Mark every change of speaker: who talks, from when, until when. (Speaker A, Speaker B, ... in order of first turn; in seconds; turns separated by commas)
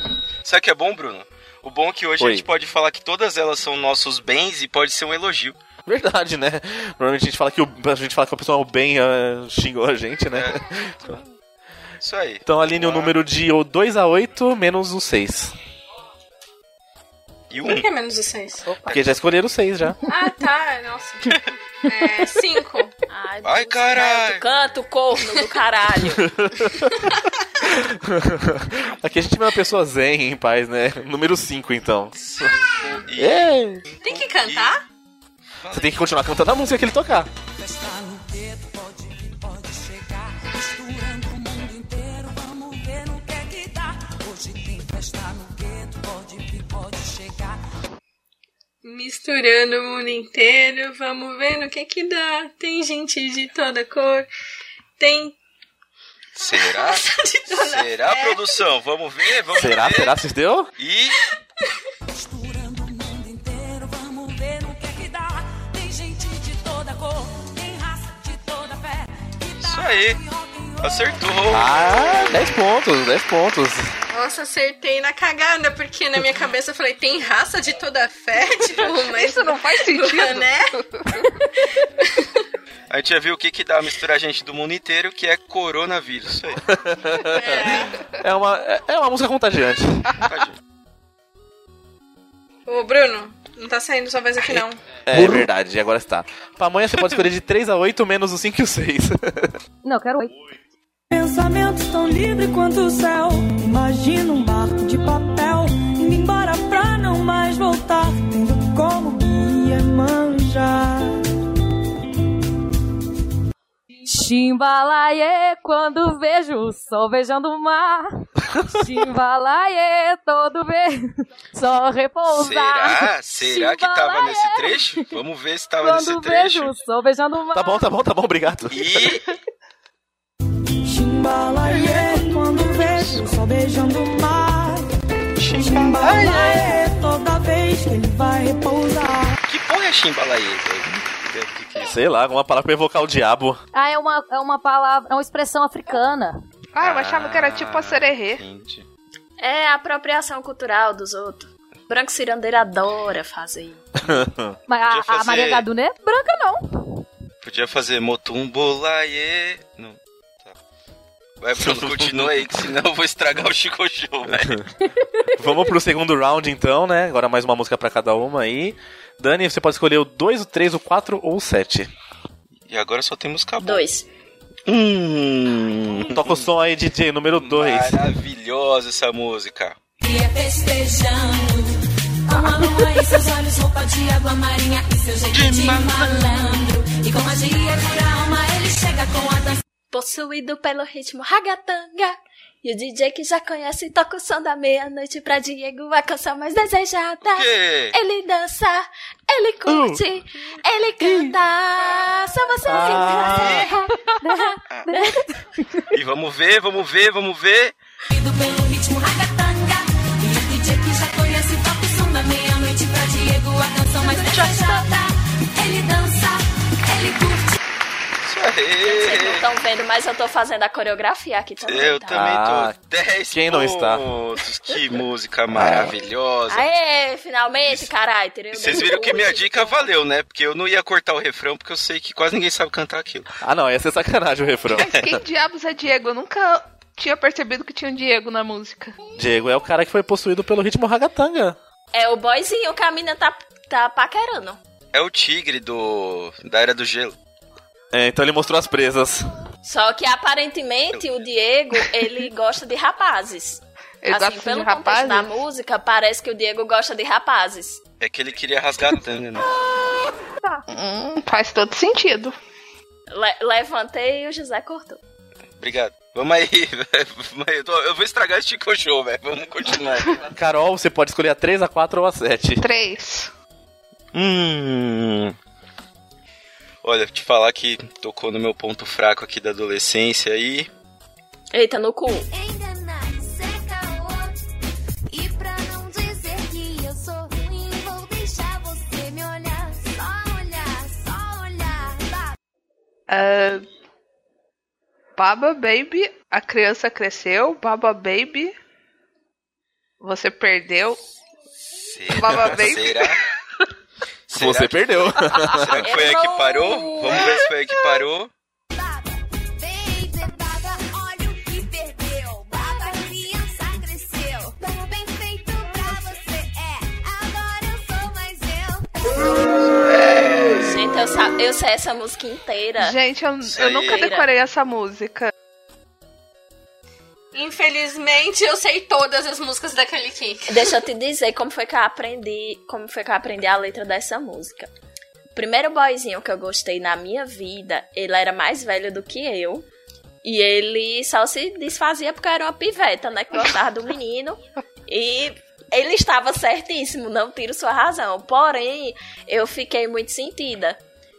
Speaker A: 0.4-5.6, Speaker B: 2.2-2.5, Speaker B: 5.8-11.2, Speaker A: 10.3-10.6, Speaker A: 12.0-13.2, Speaker B: 12.4-15.5, Speaker A: 17.5-17.9, Speaker C: 17.6-18.9, Speaker B: 18.9-20.0, Speaker C: 20.1-22.9, Speaker D: 23.1-26.2, Speaker A: 23.4-24.4, Speaker B: 26.2-27.1, Speaker C: 27.1-27.3, Speaker B: 27.6-32.5, Speaker A: 32.2-34.8, Speaker B: 33.1-33.8, Speaker C: 34.0-34.8, Speaker A: 35.6-36.2, Speaker B: 35.7-37.3, Speaker E: 37.6-47.5, Speaker C: 48.8-54.3, Speaker C: 55.0-55.4, Speaker A: 56.3-60.2, Speaker C: 56.4-58.6, Speaker B: 59.5-60.7, Speaker A: 60.8-61.2, Speaker E: 62.1-71.4, Speaker A: 69.6-70.2, Speaker A: 70.8-72.4, Speaker B: 71.5-73.9, Speaker C: 74.1-80.7, Speaker F: 78.9-81.3, Speaker C: 81.5-82.4, Speaker A: 82.9-86.7, Speaker B: 86.7-90.1, Speaker C: 87.3-88.0, Speaker A: 90.2-90.6, Speaker C: 92.7-94.8, Speaker B: 94.5-99.5, Speaker G: 99.8-100.3, Speaker G: 114.0-125.0, Speaker A: 122.3-126.7, Speaker G: 125.8-127.8, Speaker B: 127.5-129.1, Speaker A: 128.7-129.3, Speaker H: 131.0-132.1, Speaker A: 131.7-133.3, Speaker H: 133.1-134.7, Speaker A: 135.4-136.8, Speaker H: 135.6-139.1, Speaker A: 139.4-141.9, Speaker B: 141.8-143.6, Speaker G: 143.7-146.4, Speaker F: 146.7-148.4, Speaker A: 146.8-148.8, Speaker D: 149.4-153.8, Speaker B: 154.0-154.6, Speaker G: 154.7-157.0, Speaker A: 154.9-155.7, Speaker A: 157.4-160.6, Speaker A: 161.4-164.6, Speaker B: 161.6-162.6, Speaker B: 164.3-164.6, Speaker B: 165.4-171.9, Speaker A: 172.7-173.8, Speaker D: 173.6-174.1, Speaker A: 174.7-176.4, Speaker B: 176.0-178.0, Speaker A: 177.3-179.8, Speaker E: 180.0-189.6, Speaker A: 185.3-186.2, Speaker D: 189.9-203.7, Speaker A: 197.3-197.9, Speaker B: 199.7-200.0, Speaker B: 201.0-201.3, Speaker B: 202.7-203.7, Speaker A: 203.3-203.7, Speaker G: 203.6-205.9, Speaker A: 205.9-207.7, Speaker E: 208.1-217.6, Speaker A: 214.2-214.5, Speaker A: 218.2-219.4, Speaker D: 218.8-222.2, Speaker A: 221.6-226.7, Speaker B: 222.1-222.8, Speaker B: 223.3-224.1, Speaker B: 225.5-225.9, Speaker D: 226.5-229.9, Speaker A: 228.5-233.3, Speaker B: 233.4-235.2, Speaker F: 234.7-238.9, Speaker B: 239.2-241.6, Speaker D: 241.9-244.6, Speaker A: 244.9-247.2, Speaker B: 247.9-249.3, Speaker D: 249.6-257.8, Speaker F: 254.0-255.3, Speaker A: 258.0-259.5, Speaker F: 260.7-262.3, Speaker D: 263.1-265.0, Speaker A: 265.6-270.3, Speaker B: 270.3-272.6, Speaker F: 272.6-273.3, Speaker A: 274.1-275.4, Speaker A: 276.8-280.7, Speaker D: 281.5-282.3, Speaker I: 282.3-284.4, Speaker I: 285.1-292.3, Speaker F: 293.1-293.6, Speaker F: 295.1-298.5, Speaker F: 300.0-301.0, Speaker A: 301.8-303.2, Speaker F: 302.1-303.2, Speaker A: 304.3-308.3, Speaker B: 304.3-305.8, Speaker D: 305.8-307.3, Speaker I: 308.7-319.6, Speaker D: 320.6-323.0, Speaker F: 322.8-325.3, Speaker A: 323.4-324.1, Speaker D: 323.8-324.2, Speaker C: 327.3-330.7, Speaker D: 330.5-334.7, Speaker D: 335.3-339.6, Speaker D: 340.2-350.8